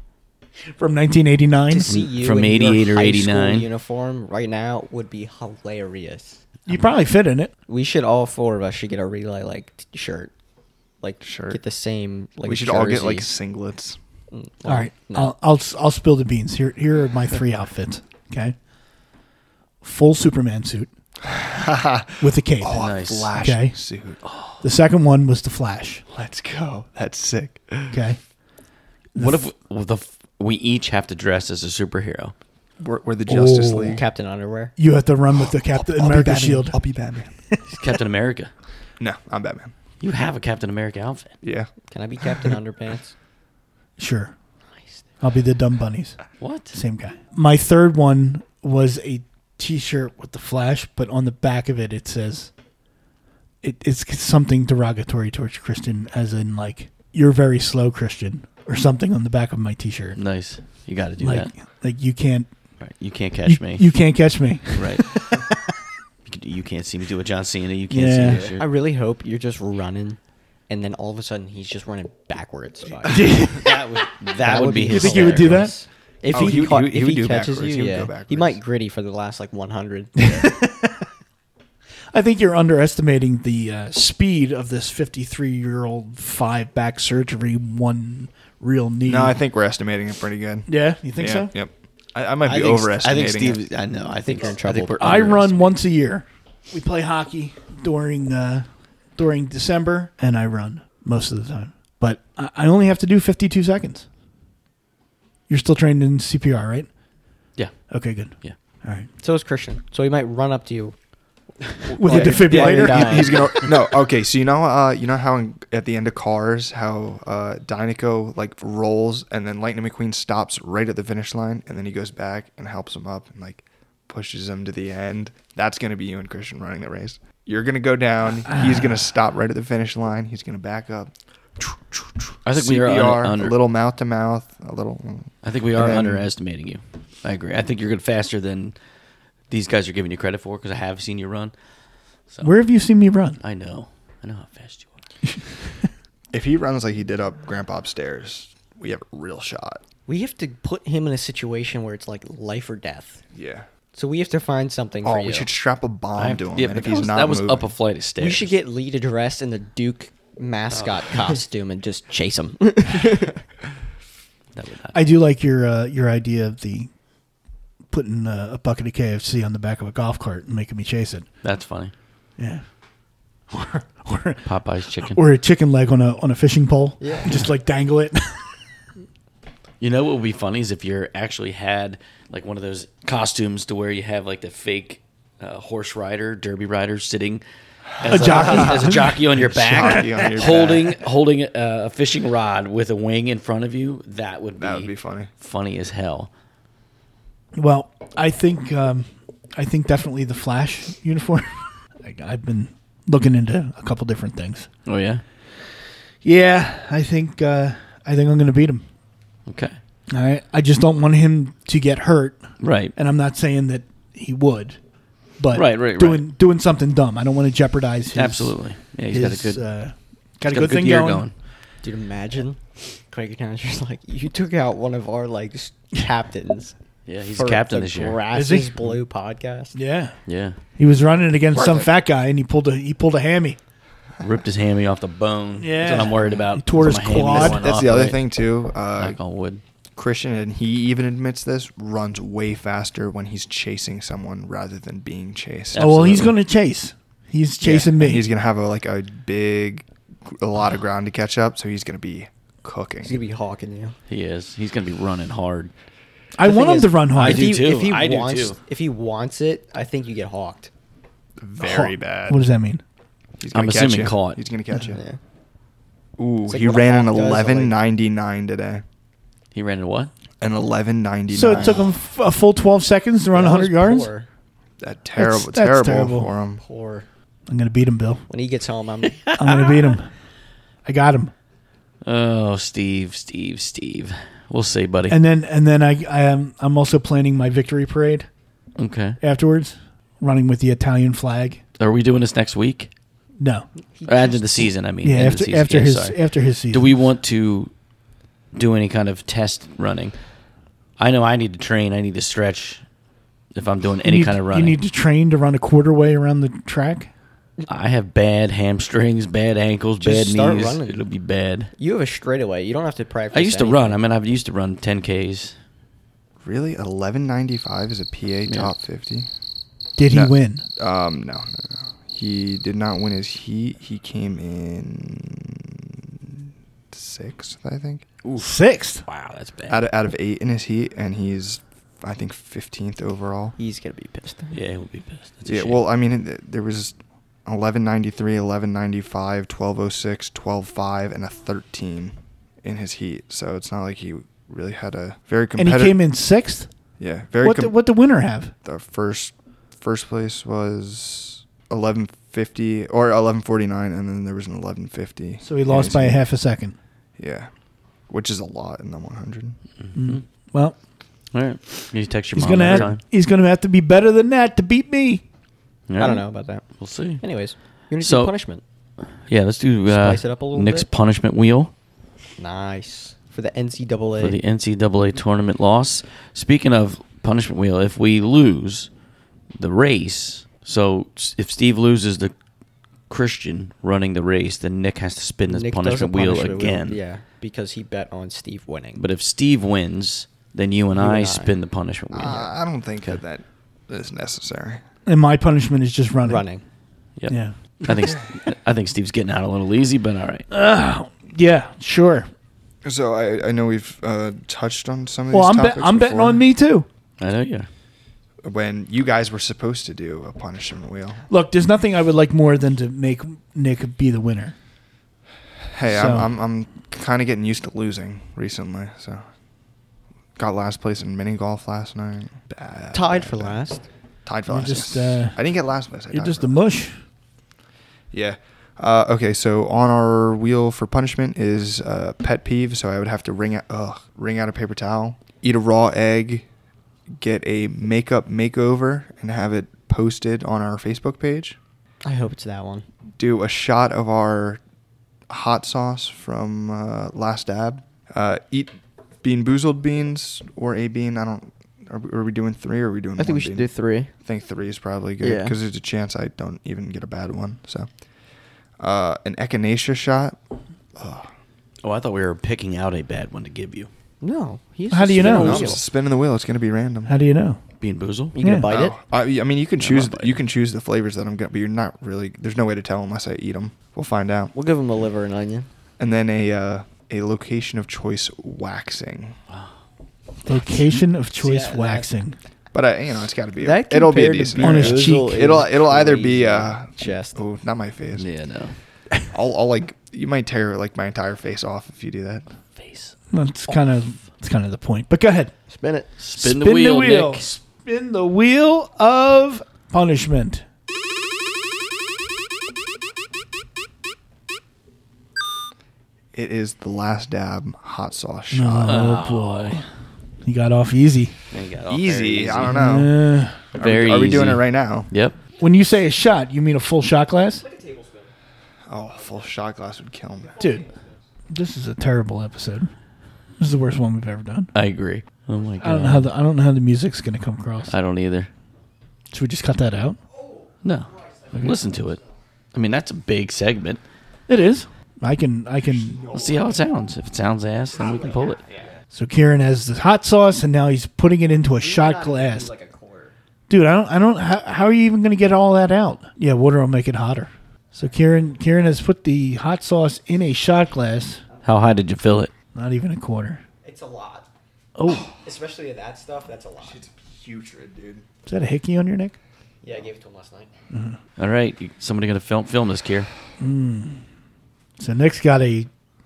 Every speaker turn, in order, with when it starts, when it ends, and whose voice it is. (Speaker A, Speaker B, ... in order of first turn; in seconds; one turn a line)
Speaker A: 0.7-1.9
Speaker B: 1.7-6.4
Speaker C: 1.9-3.7
Speaker A: 6.7-7.5
Speaker B: 7.7-10.3
Speaker B: 11.0-13.3
Speaker D: 11.2-11.6
Speaker D: 12.4-14.0
Speaker B: 14.3-15.3
Speaker A: 14.6-18.6
Speaker A: 19.8-20.9
Speaker D: 21.2-24.2
Speaker A: 22.2-23.8
Speaker C: 22.7-23.3
Speaker A: 24.6-26.0
Speaker D: 26.1-28.0
Speaker A: 27.9-28.2
Speaker A: 29.1-29.4
Speaker C: 29.1-32.3
Speaker D: 32.8-34.0
Speaker A: 33.3-34.0
Speaker B: 33.9-34.7
Speaker A: 34.8-36.8
Speaker D: 35.4-37.3
Speaker C: 37.7-38.5
Speaker D: 39.0-39.7
Speaker C: 40.0-41.3
Speaker D: 41.4-41.7
Speaker B: 41.9-43.1
Speaker A: 44.0-44.3
Speaker A: 45.2-52.5
Speaker C: 46.4-46.8
Speaker A: 53.6-60.2
Speaker C: 60.1-61.5
Speaker A: 61.2-62.5
Speaker C: 62.8-63.9
Speaker A: 63.5-65.5
Speaker C: 64.7-65.1
Speaker C: 66.2-68.6
Speaker A: 67.9-68.4
Speaker B: 68.3-73.6
Speaker A: 73.1-73.7
Speaker C: 73.5-75.7
Speaker B: 74.4-80.3
Speaker A: 74.9-75.8
Speaker D: 76.3-78.6
Speaker A: 76.3-76.7
Speaker A: 80.2-81.0
Speaker A: 82.1-89.4
Speaker D: 89.0-93.6
Speaker A: 90.7-91.5
Speaker B: 92.4-92.9
Speaker C: 93.0-95.7
Speaker B: 94.2-95.5
Speaker A: 95.0-104.1
Speaker A: 105.5-106.9
Speaker A: 107.9-109.1
Speaker B: 109.2-111.0
Speaker B: 111.6-113.7
Speaker A: 111.9-113.4
Speaker D: 112.0-136.3
Speaker A: 128.5-128.8
Speaker C: 132.4-133.6
Speaker C: 135.4-138.8
Speaker C: 139.5-141.5
Speaker A: 142.4-143.4
Speaker C: 143.4-144.9
Speaker D: 146.3-149.8
Speaker B: 150.1-153.2
Speaker D: 153.3-153.7
Speaker B: 153.9-155.5
Speaker D: 155.0-157.7
Speaker C: 156.2-158.6
Speaker B: 158.2-163.4
Speaker C: 160.7-161.1
Speaker C: 164.5-165.0
Speaker A: 164.9-166.9
Speaker A: 167.9-171.3
Speaker C: 171.4-171.9
Speaker A: 172.4-172.6
Speaker A: 173.5-174.4
Speaker C: 174.4-175.2
Speaker A: 175.0-178.6
Speaker B: 177.0-177.4
Speaker C: 179.8-187.4
Speaker C: 188.0-196.3
Speaker A: 188.0-190.3
Speaker D: 188.1-191.0
Speaker D: 194.6-195.3
Speaker A: 197.5-204.7
Speaker C: 204.8-205.2
Speaker A: 206.2-208.8
Speaker C: 209.5-209.8
Speaker A: 210.1-214.8
Speaker C: 212.6-212.9
Speaker A: 215.4-221.3
Speaker C: 215.5-216.3
Speaker C: 218.1-219.6
Speaker C: 220.4-221.3
Speaker B: 221.8-226.7
Speaker C: 227.1-228.2
Speaker B: 227.3-229.8
Speaker A: 228.3-228.7
Speaker A: 229.7-230.2
Speaker C: 230.2-230.6
Speaker A: 230.8-233.6
Speaker C: 234.2-238.2
Speaker A: 235.6-237.7
Speaker D: 237.3-239.2
Speaker C: 239.0-239.6
Speaker D: 239.9-246.2
Speaker C: 245.7-246.3
Speaker A: 245.8-248.2
Speaker D: 247.6-253.2
Speaker B: 253.0-253.9
Speaker C: 254.1-255.7
Speaker A: 256.4-257.6
Speaker B: 256.4-260.7
Speaker C: 257.1-258.6
Speaker D: 261.4-262.4
Speaker A: 261.6-262.8
Speaker D: 263.4-265.0
Speaker C: 263.5-264.4
Speaker B: 264.9-265.2
Speaker D: 266.2-268.8
Speaker B: 266.5-267.8
Speaker C: 269.5-270.1
Speaker D: 270.4-271.9
Speaker A: 271.3-274.1
Speaker B: 273.3-274.3
Speaker D: 274.8-276.6
Speaker A: 275.1-276.3
Speaker B: 276.6-277.1
Speaker A: 277.5-278.2
Speaker B: 278.3-279.4
Speaker C: 279.1-279.6
Speaker A: 279.4-280.1
Speaker A: 280.8-281.3
Speaker C: 282.0-285.2
Speaker A: 285.1-288.3
Speaker C: 288.8-289.2
Speaker A: 289.2-291.6
Speaker C: 291.8-292.9
Speaker A: 293.4-293.7
Speaker B: 293.9-294.6
Speaker C: 294.0-297.7
Speaker A: 295.0-297.0
Speaker C: 298.5-300.1
Speaker C: 301.0-302.8
Speaker C: 303.5-304.8
Speaker A: 304.0-307.1
Speaker C: 307.7-311.7
Speaker B: 310.0-311.1
Speaker B: 311.8-314.0
Speaker C: 313.3-315.5
Speaker D: 316.4-319.3
Speaker C: 318.5-318.7
Speaker A: 320.0-320.6
Speaker D: 320.1-328.0
Speaker C: 328.2-328.5
Speaker A: 328.4-329.0
Speaker C: 329.1-329.8
Speaker D: 329.7-333.6
Speaker B: 333.6-334.6
Speaker C: 334.5-335.8
Speaker D: 335.5-346.0
Speaker A: 345.6-346.7
Speaker D: 347.0-347.8
Speaker A: 347.4-348.5
Speaker D: 348.6-356.2
Speaker A: 355.4-356.8
Speaker D: 357.2-357.5
Speaker D: 358.1-359.6
Speaker C: 359.8-360.2
Speaker A: 359.9-360.8
Speaker C: 361.3-363.0
Speaker A: 362.3-365.2
Speaker C: 365.9-367.2
Speaker B: 366.0-366.7
Speaker B: 367.2-368.6
Speaker C: 368.0-368.3
Speaker C: 369.3-371.7
Speaker B: 369.9-370.9
Speaker B: 372.4-374.4
Speaker C: 374.2-378.9
Speaker C: 379.6-382.3
Speaker C: 383.1-387.0
Speaker B: 385.5-389.0
Speaker C: 388.9-392.5
Speaker B: 390.9-391.6
Speaker D: 392.1-394.8
Speaker A: 395.1-396.4
Speaker B: 396.2-396.6
Speaker C: 397.2-400.5
Speaker A: 397.3-397.5
Speaker A: 400.5-402.3
Speaker D: 402.8-406.4
Speaker A: 405.3-406.9
Speaker C: 407.2-407.7
Speaker D: 408.4-411.2
Speaker A: 411.3-414.5
Speaker D: 415.7-419.2
Speaker A: 415.8-416.3
Speaker D: 420.4-423.6
Speaker B: 422.9-423.9
Speaker D: 424.2-426.6
Speaker A: 424.5-425.4
Speaker A: 426.1-427.0
Speaker D: 428.1-436.4
Speaker D: 437.2-441.6
Speaker B: 442.0-442.9
Speaker D: 443.2-444.6
Speaker D: 445.3-453.6
Speaker B: 453.2-454.1
Speaker D: 454.2-457.9
Speaker B: 455.2-455.6
Speaker D: 458.8-460.4
Speaker D: 460.9-461.3
Speaker C: 461.8-463.9
Speaker B: 464.2-465.8
Speaker A: 464.9-465.8
Speaker D: 465.1-467.1
Speaker A: 467.1-467.6
Speaker C: 467.8-468.4
Speaker B: 468.3-469.0
Speaker A: 468.4-468.7
Speaker D: 468.7-474.5
Speaker C: 469.8-470.4
Speaker B: 474.5-475.7
Speaker D: 476.0-479.4
Speaker A: 480.4-482.4
Speaker B: 481.4-482.1
Speaker D: 482.7-488.3
Speaker B: 483.6-487.4
Speaker A: 484.6-485.4
Speaker C: 488.2-488.8
Speaker D: 489.3-492.4
Speaker C: 492.8-493.1
Speaker A: 493.3-495.5
Speaker B: 495.7-496.1
Speaker C: 496.2-497.5
Speaker A: 496.4-500.6
Speaker D: 506.3-509.2
Speaker A: 508.5-509.9
Speaker C: 508.8-509.8
Speaker A: 510.4-511.4
Speaker C: 511.5-512.8
Speaker D: 511.9-513.1
Speaker A: 512.6-513.6
Speaker D: 513.7-515.1
Speaker C: 513.7-515.4
Speaker A: 515.6-517.6
Speaker B: 517.6-518.3
Speaker D: 518.9-520.6
Speaker A: 520.6-520.9
Speaker A: 521.5-522.9
Speaker A: 523.6-524.7
Speaker C: 524.7-526.3
Speaker A: 525.8-527.9
Speaker C: 527.9-528.5
Speaker A: 529.3-530.2
Speaker C: 530.8-532.2
Speaker C: 532.7-534.0
Speaker A: 534.5-536.2
Speaker D: 536.1-536.7
Speaker C: 536.3-538.6
Speaker A: 539.1-542.7
Speaker B: 541.8-543.3
Speaker A: 543.7-551.4
Speaker C: 551.6-552.5
Speaker A: 552.7-553.6
Speaker B: 553.8-554.5
Speaker A: 555.0-555.3
Speaker B: 555.3-557.0
Speaker D: 556.8-558.2
Speaker A: 558.5-559.3
Speaker B: 559.8-560.7
Speaker A: 560.9-561.2
Speaker C: 561.4-563.3
Speaker A: 563.6-564.2
Speaker A: 565.0-565.9